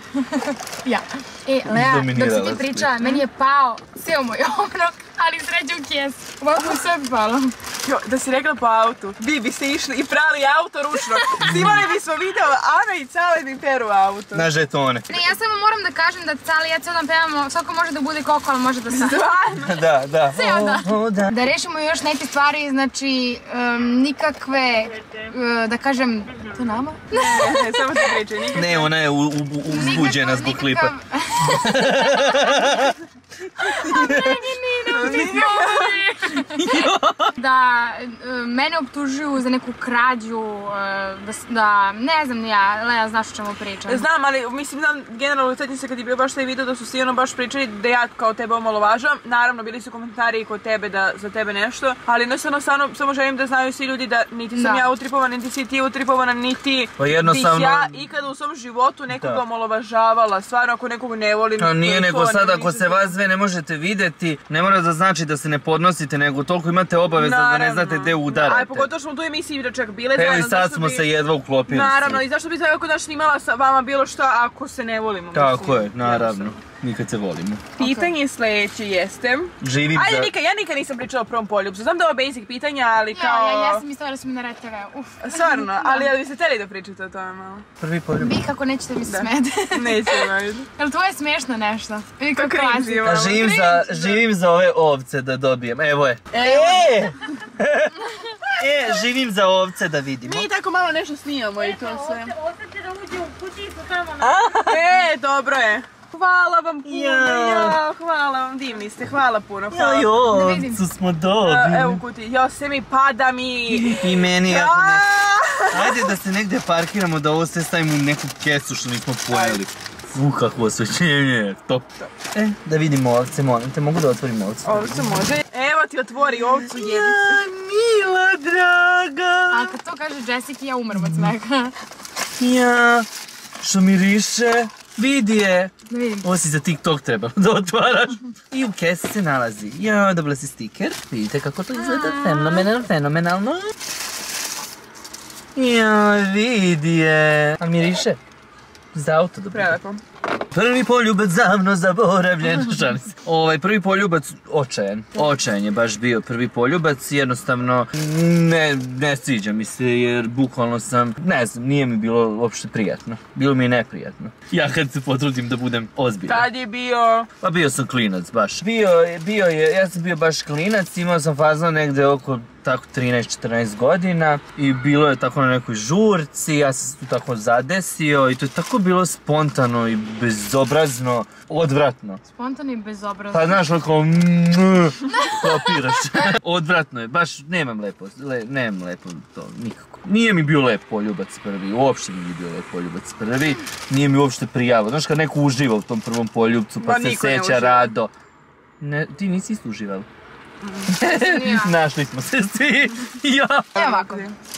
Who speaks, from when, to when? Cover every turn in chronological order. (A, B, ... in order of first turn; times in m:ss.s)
0:00.2-0:07.5 A
0:01.7-0:03.0 B
0:07.8-0:14.5 C
0:11.2-0:11.5 A
0:11.4-0:11.8 B
0:14.3-0:15.3 B
0:15.1-0:19.2 A
0:18.9-0:19.8 C
0:19.6-0:21.3 B
0:20.3-0:28.1 A
0:24.7-0:25.3 D
0:26.3-0:26.8 D
0:27.1-0:28.9 C
0:28.5-0:32.9 B
0:29.7-0:32.9 A
0:33.6-0:35.3 B
0:33.6-0:44.0 A
0:34.9-0:36.0 C
0:36.5-0:37.3 B
0:43.9-1:03.1 C
0:54.5-0:54.9 A
0:57.0-0:58.0 B
0:59.1-0:59.4 B
1:01.6-1:08.9 B
1:07.1-1:11.1 C
1:10.1-1:12.2 B
1:11.7-1:16.6 C
1:15.3-1:17.8 B
1:17.8-1:23.8 C
1:17.8-1:18.1 A
1:19.6-1:20.3 B
1:23.1-1:26.1 A
1:25.2-1:27.6 C
1:27.8-1:28.4 B
1:28.2-1:33.9 A
1:29.1-1:30.7 C
1:32.4-1:33.5 C
1:33.0-1:38.0 B
1:36.3-1:36.9 C
1:36.4-1:37.0 A
1:38.5-1:40.5 B
1:40.2-1:42.3 C
1:41.6-1:44.6 D
1:44.2-1:44.8 B
1:44.6-1:50.1 C
1:46.8-1:47.8 B
1:49.7-1:52.0 B
1:50.2-1:50.8 A
1:51.4-1:56.1 C
1:53.7-1:55.1 B
1:55.7-2:05.1 B
1:59.3-1:59.6 C
2:04.6-2:07.4 C
2:06.6-2:09.7 B
2:09.5-2:11.7 A
2:10.9-2:11.3 B
2:12.4-2:13.1 B
2:13.6-2:23.7 B
2:15.9-2:16.3 A
2:21.8-2:22.6 C
2:25.5-2:28.2 B
2:28.9-2:29.7 B
2:29.5-2:30.0 C
2:30.5-2:46.5 B
2:46.3-2:47.3 C
2:47.4-3:02.2 B
3:02.3-3:03.6 A
3:03.3-3:18.1 B
3:05.1-3:05.8 A
3:16.8-3:17.9 C
3:18.8-3:20.1 B
3:20.6-3:20.9 C
3:20.9-3:23.8 B
3:21.0-3:21.8 A
3:23.7-3:24.3 C
3:23.8-3:24.3 A